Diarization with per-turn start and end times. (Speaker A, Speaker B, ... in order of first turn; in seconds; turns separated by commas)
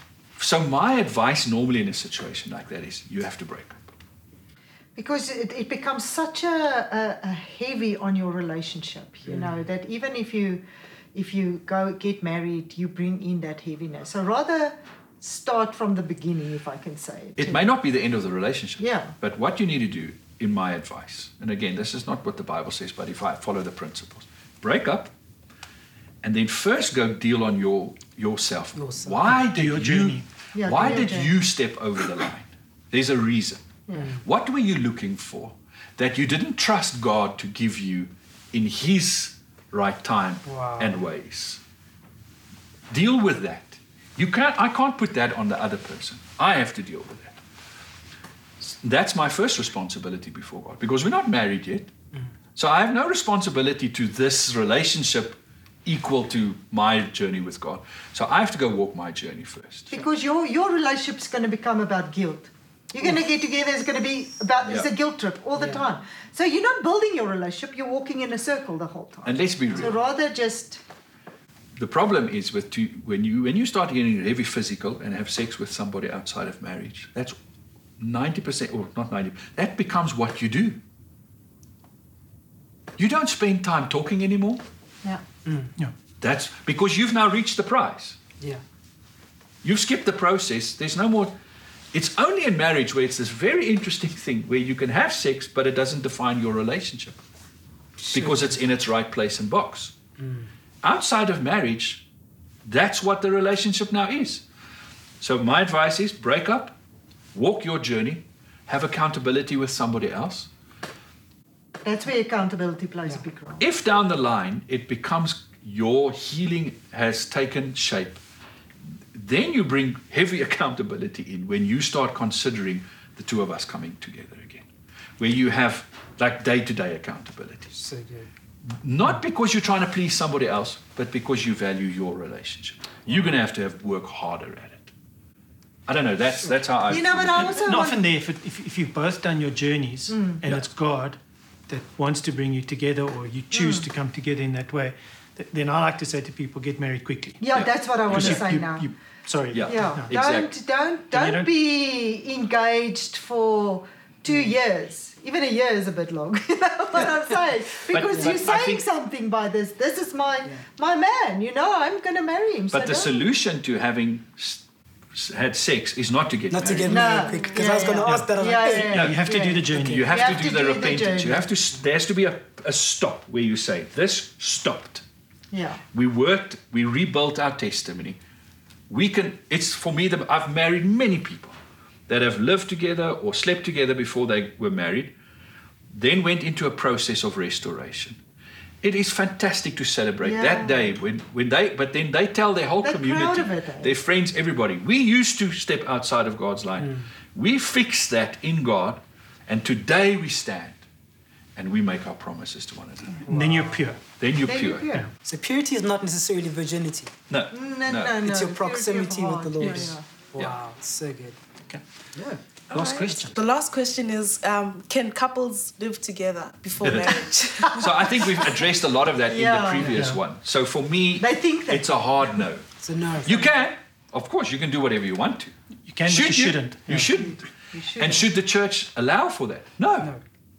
Speaker A: 0.4-3.8, Speaker B: 5.0-10.6, Speaker C: 9.3-9.6, Speaker B: 11.1-17.6, Speaker A: 17.4-25.1, Speaker B: 18.8-19.1, Speaker A: 26.2-41.6, Speaker C: 28.7-29.4, Speaker D: 29.5-30.2, Speaker B: 30.5-31.3, Speaker C: 33.9-34.2, Speaker C: 40.5-41.0, Speaker A: 42.9-47.4, Speaker A: 48.6-51.9, Speaker A: 52.5-60.0, Speaker B: 59.9-70.8, Speaker A: 64.6-64.9, Speaker C: 65.6-65.8, Speaker A: 69.2-70.0, Speaker A: 71.8-77.3, Speaker A: 78.0-80.8, Speaker A: 83.0-84.6, Speaker C: 85.4-85.7, Speaker A: 86.2-88.2, Speaker A: 89.6-91.3, Speaker A: 91.9-97.2, Speaker C: 98.0-98.6, Speaker A: 98.1-99.9, Speaker C: 100.2-100.5, Speaker A: 100.8-102.0, Speaker A: 102.6-104.4, Speaker A: 105.2-106.8, Speaker A: 107.3-110.5, Speaker B: 111.8-113.6, Speaker A: 113.6-118.2, Speaker A: 119.1-124.6, Speaker A: 125.2-127.7, Speaker C: 127.7-128.3, Speaker A: 128.7-134.9, Speaker A: 135.9-137.7, Speaker B: 136.9-138.0, Speaker D: 137.6-147.4, Speaker B: 140.1-140.4, Speaker B: 143.5-143.9, Speaker B: 147.4-148.9, Speaker A: 147.5-148.5, Speaker D: 148.1-150.1, Speaker A: 149.5-150.5, Speaker B: 149.7-163.2, Speaker D: 151.1-151.5, Speaker A: 157.9-158.8, Speaker A: 162.7-164.6, Speaker A: 165.1-167.2, Speaker C: 166.5-169.1, Speaker B: 166.9-171.4, Speaker E: 167.3-167.7, Speaker D: 168.0-170.1, Speaker A: 168.9-169.2, Speaker A: 169.7-175.0, Speaker C: 169.7-170.0, Speaker B: 175.5-175.8, Speaker A: 175.9-178.2, Speaker A: 178.9-181.6, Speaker A: 182.1-185.1, Speaker A: 185.9-188.2, Speaker A: 188.8-200.8, Speaker B: 190.2-190.9, Speaker B: 192.8-193.9, Speaker C: 196.8-197.1, Speaker A: 201.6-203.2, Speaker C: 203.2-203.8, Speaker D: 203.3-204.0, Speaker A: 204.1-204.9, Speaker B: 204.4-205.1, Speaker C: 205.2-207.1, Speaker A: 207.3-208.2, Speaker B: 207.5-210.0, Speaker C: 208.2-211.4, Speaker A: 209.6-210.5, Speaker C: 212.1-212.4, Speaker D: 212.7-213.4, Speaker E: 212.7-218.6, Speaker A: 216.8-222.6, Speaker B: 219.3-220.0, Speaker D: 219.9-220.2, Speaker B: 221.2-221.8, Speaker C: 222.8-223.6, Speaker A: 223.2-225.5, Speaker D: 225.9-227.1, Speaker A: 226.0-230.1, Speaker B: 227.2-228.2